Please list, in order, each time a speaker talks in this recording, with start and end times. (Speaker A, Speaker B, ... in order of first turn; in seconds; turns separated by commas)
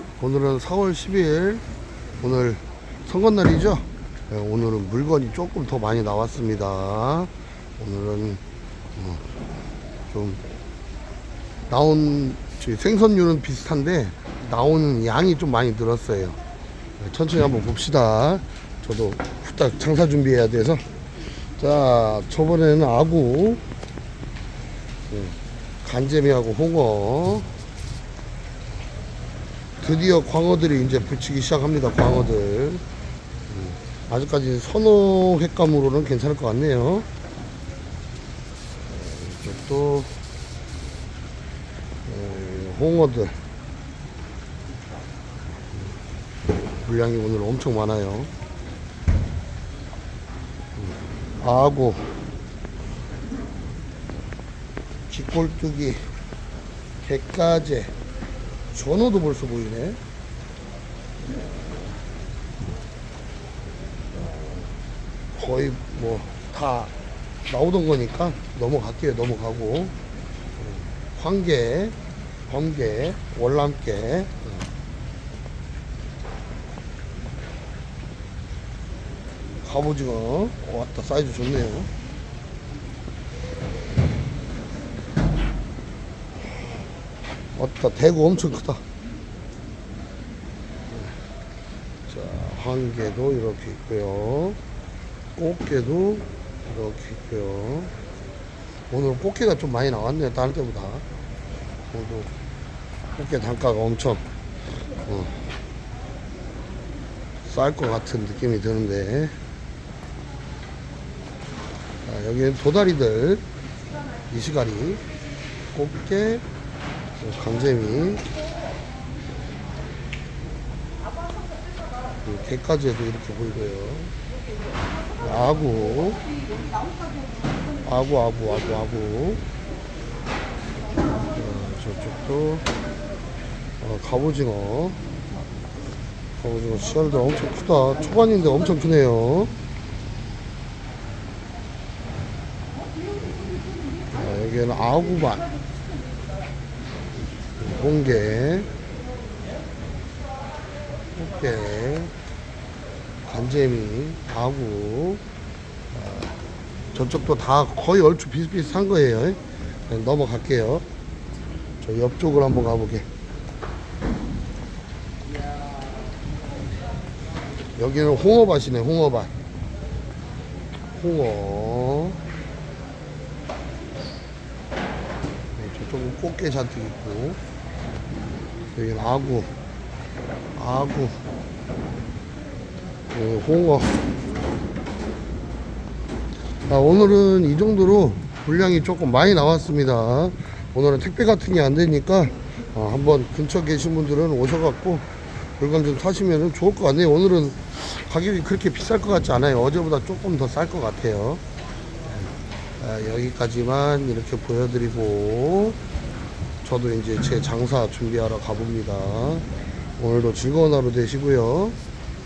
Speaker A: 0.2-1.6, Speaker A: 2.2-8.4, Speaker A: 8.9-9.2, Speaker A: 10.1-10.4, Speaker A: 11.7-16.4, Speaker A: 17.0-23.6, Speaker A: 25.1-27.5, Speaker A: 29.8-32.8, Speaker A: 33.5-37.1, Speaker A: 38.8-40.1, Speaker A: 42.0-43.4, Speaker A: 46.7-48.3, Speaker A: 50.8-52.1, Speaker A: 55.1-56.1, Speaker A: 57.0-57.9, Speaker A: 58.7-60.0, Speaker A: 61.2-62.0, Speaker A: 64.1-64.8, Speaker A: 65.3-66.9, Speaker A: 67.5-69.9, Speaker A: 70.6-72.0, Speaker A: 72.5-74.6, Speaker A: 79.6-81.9, Speaker A: 87.5-88.8, Speaker A: 90.9-91.2, Speaker A: 92.1-94.6, Speaker A: 95.3-97.9, Speaker A: 98.9-101.0, Speaker A: 101.9-102.3, Speaker A: 103.1-105.4, Speaker A: 107.4-109.3, Speaker A: 112.0-113.4, Speaker A: 114.3-115.0, Speaker A: 115.7-116.4, Speaker A: 117.2-118.3, Speaker A: 122.2-124.1, Speaker A: 125.2-126.3, Speaker A: 127.8-129.4, Speaker A: 131.3-132.7, Speaker A: 133.8-135.0, Speaker A: 136.4-139.5, Speaker A: 144.1-145.5, Speaker A: 147.6-148.7, Speaker A: 151.1-152.1, Speaker A: 153.2-155.2, Speaker A: 155.9-156.4, Speaker A: 156.9-160.8, Speaker A: 161.8-163.1, Speaker A: 167.8-169.3, Speaker A: 170.9-172.2, Speaker A: 175.6-177.4, Speaker A: 178.7-179.5, Speaker A: 180.5-181.2, Speaker A: 183.1-184.0, Speaker A: 186.7-195.1, Speaker A: 195.6-201.4, Speaker A: 202.1-205.8, Speaker A: 206.6-211.8